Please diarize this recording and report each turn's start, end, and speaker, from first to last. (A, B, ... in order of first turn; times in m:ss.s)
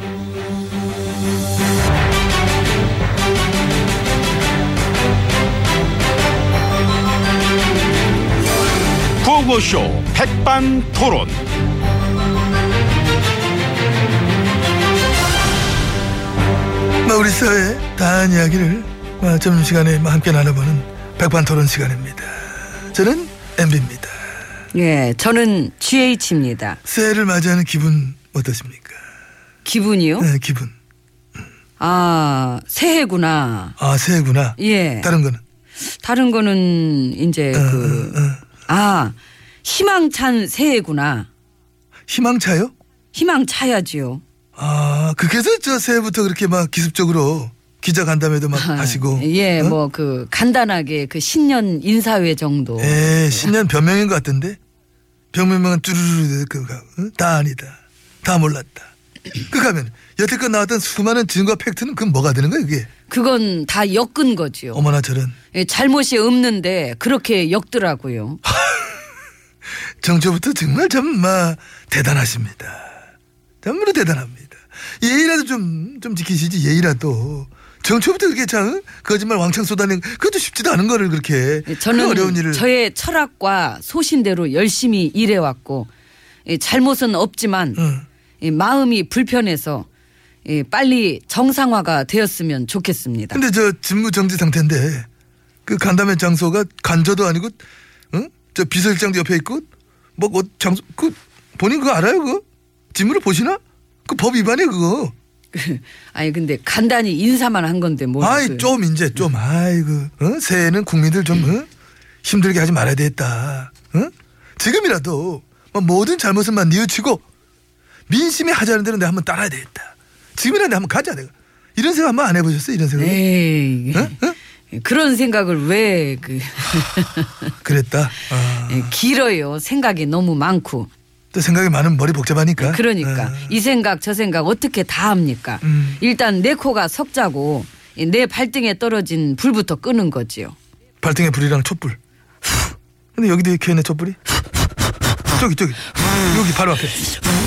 0:09.2-0:11.4 A
0:17.0-0:24.2 B
0:24.7-0:26.8 C
0:26.8-0:29.0 B
0:29.6-0:30.3 C
0:30.2-0:30.7 B
0:31.8-0:33.8 C
0:33.8-0:35.4 B
0:34.6-0:35.1 C
0:35.8-0:41.3 C
0:37.5-0:38.4 B
0:42.1-0:42.7 B
0:43.1-0:44.2 C
0:44.6-0:49.8 B
0:48.5-0:53.5 C
0:52.8-0:54.6 B
0:55.3-0:58.9 B
0:59.4-1:02.9 B
1:03.1-1:04.8 C
1:04.7-1:05.3 B
1:05.5-1:08.4 C
1:08.4-1:09.0 B
1:10.0-1:13.0 B
1:13.6-1:22.6 B
1:21.7-1:25.9 C
1:26.4-1:27.8 C
1:27.8-1:28.0 B
1:28.4-1:29.9 C
1:30.4-1:33.4 C
1:33.3-1:35.1 B
1:35.6-1:39.6 B
1:40.2-1:45.1 B
1:45.5-1:48.7 C
1:48.2-1:51.7 B
1:52.2-1:57.2 B
1:58.1-2:03.2 B
2:03.0-2:04.2 C
2:03.9-2:04.4 B
2:04.7-2:07.5 C
2:07.6-2:08.9 B
2:08.6-2:10.9 C
2:11.3-2:13.5 B
2:12.6-2:20.5 C
2:15.6-2:16.0 B
2:21.0-2:22.0 B
2:23.1-2:24.2 B
2:25.3-2:27.1 B